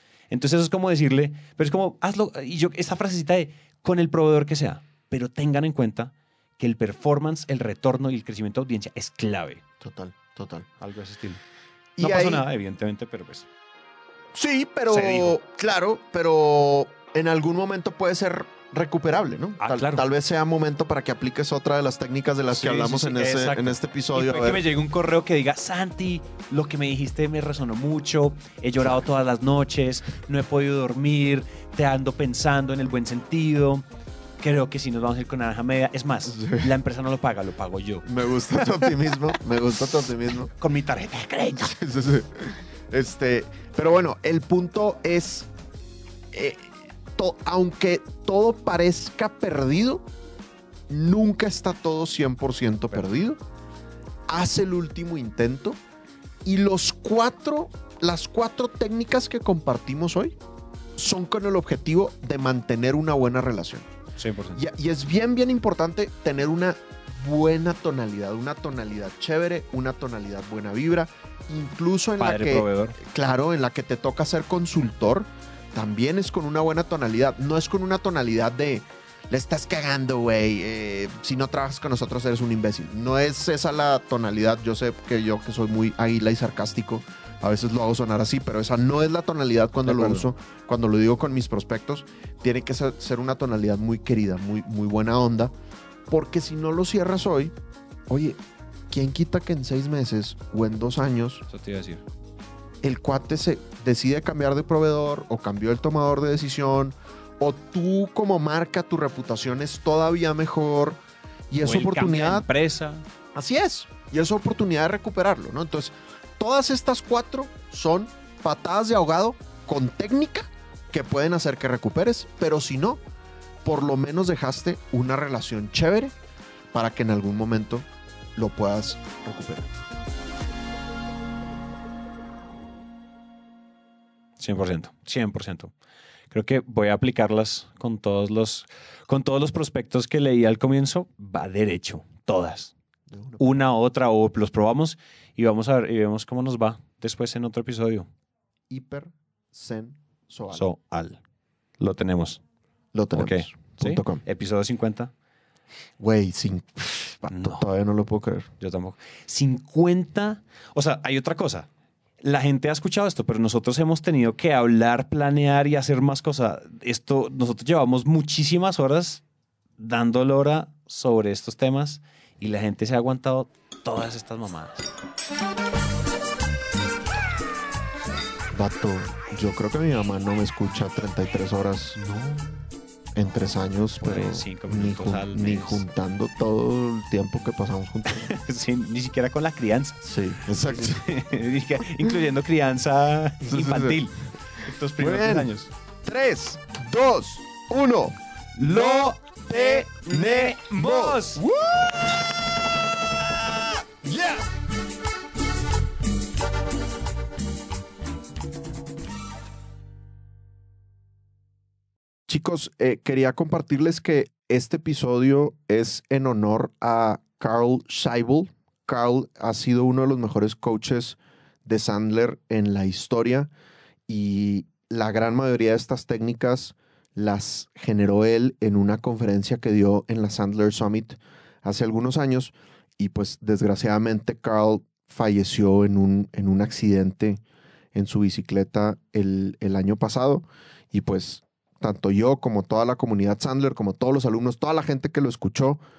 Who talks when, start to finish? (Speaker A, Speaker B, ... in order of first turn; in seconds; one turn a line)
Speaker A: 0.3-9.6
Speaker B: 9.8-10.7
Speaker A: 10.8-11.4
Speaker B: 12.0-12.4
Speaker A: 12.0-13.5
Speaker B: 14.3-24.6
Speaker A: 14.9-15.3
Speaker A: 19.6-20.1
Speaker A: 22.5-33.8
Speaker A: 34.4-38.9
Speaker B: 36.3-36.7
Speaker B: 38.0-40.5
Speaker A: 40.5-41.8
Speaker B: 41.6-45.5
Speaker B: 46.3-50.0
Speaker B: 50.9-53.4
Speaker B: 54.3-55.8
Speaker B: 56.4-60.4
Speaker B: 61.0-63.9
Speaker A: 64.2-64.6
Speaker B: 64.5-95.5
Speaker A: 72.2-73.0
Speaker A: 89.8-90.2
Speaker B: 96.1-97.5
Speaker B: 98.1-98.4
Speaker B: 98.9-101.5
Speaker A: 101.5-102.0
Speaker B: 102.8-111.0
Speaker B: 111.5-112.5
Speaker A: 111.6-113.0
Speaker B: 113.3-123.0
Speaker B: 123.6-126.1
Speaker B: 126.7-129.7
Speaker A: 134.4-135.7
Speaker A: 136.3-142.7
Speaker B: 143.1-143.5
Speaker A: 143.4-148.1
Speaker B: 148.7-150.7
Speaker A: 150.5-151.2
Speaker A: 151.8-152.4
Speaker B: 152.9-154.2
Speaker A: 153.1-155.1
Speaker B: 156.0-158.5
Speaker A: 157.3-157.6
Speaker A: 158.6-161.7
Speaker A: 162.2-169.2
Speaker A: 169.8-174.9
Speaker B: 178.5-182.0
Speaker A: 182.0-182.6
Speaker B: 183.2-188.3
Speaker A: 184.0-185.8
Speaker A: 188.1-195.7
Speaker B: 190.0-191.0
Speaker B: 193.4-194.0
Speaker B: 195.0-195.5
Speaker B: 196.0-204.5
Speaker A: 198.6-201.4
Speaker B: 212.3-223.5
Speaker B: 224.1-237.4
Speaker B: 237.9-245.8